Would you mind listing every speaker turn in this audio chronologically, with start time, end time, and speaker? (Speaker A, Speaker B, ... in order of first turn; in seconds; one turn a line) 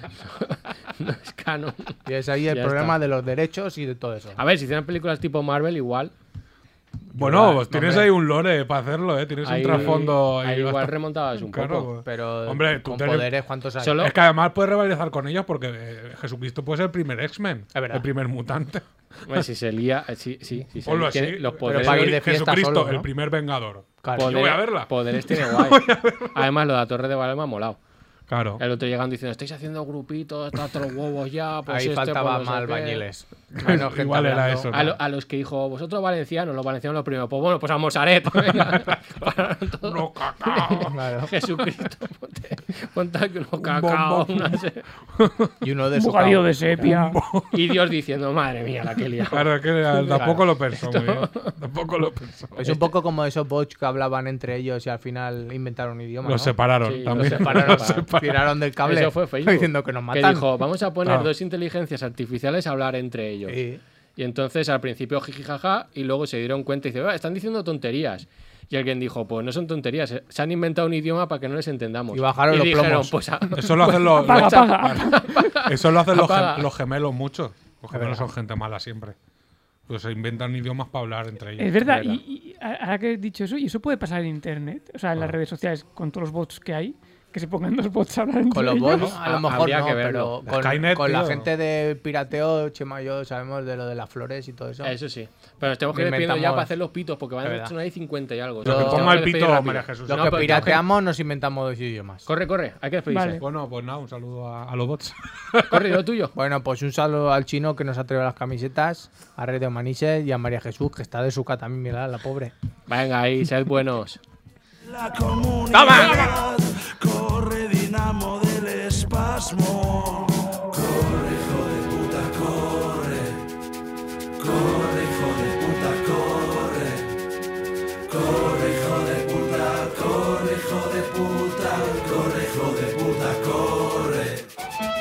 Speaker A: 0.2-2.0
Speaker B: 2.1-4.4
Speaker A: 2.5-3.0
Speaker A: 4.4-6.1
Speaker C: 7.1-13.3
Speaker B: 7.1-8.2
Speaker A: 9.4-11.9
Speaker B: 9.7-10.0
Speaker B: 12.1-14.1
Speaker A: 13.8-14.1
Speaker C: 14.0-19.4
Speaker B: 17.7-18.1
Speaker A: 19.3-22.2
Speaker C: 20.8-26.4
Speaker B: 21.6-23.1
Speaker B: 24.0-24.5
Speaker A: 24.2-27.8
Speaker C: 28.3-28.6
Speaker A: 28.6-33.0
Speaker B: 31.7-34.7
Speaker C: 33.5-35.0
Speaker A: 34.7-44.8
Speaker C: 38.5-39.0
Speaker C: 39.8-41.0
Speaker B: 40.9-41.3
Speaker C: 43.6-44.6
Speaker C: 45.2-45.5
Speaker B: 45.6-46.6
Speaker D: 46.0-47.2
Speaker C: 46.8-47.6
Speaker A: 47.5-51.5
Speaker C: 49.3-52.7
Speaker B: 50.1-50.4
Speaker B: 52.6-56.6
Speaker C: 56.2-58.5
Speaker A: 56.8-58.1
Speaker B: 57.1-60.5
Speaker A: 58.8-63.6
Speaker C: 61.0-61.3
Speaker B: 63.5-63.8
Speaker A: 64.2-76.7
Speaker B: 72.1-73.3
Speaker C: 73.5-79.2
Speaker D: 74.0-75.5
Speaker B: 77.9-78.3
Speaker C: 79.9-82.1
Speaker D: 81.6-89.2
Speaker B: 88.5-94.9
Speaker A: 89.2-90.5
Speaker C: 90.5-91.5
Speaker A: 94.8-100.8
Speaker B: 95.9-96.7
Speaker B: 97.4-97.7
Speaker C: 98.6-100.8
Speaker B: 98.7-99.3
Speaker B: 100.1-102.2
Speaker A: 102.3-103.5
Speaker D: 103.1-103.4
Speaker C: 103.4-106.0
Speaker A: 105.7-106.3
Speaker B: 106.3-112.5
Speaker A: 112.9-114.2
Speaker E: 114.8-123.4
Speaker B: 115.7-116.3
Speaker E: 124.4-127.1
Speaker E: 128.1-134.5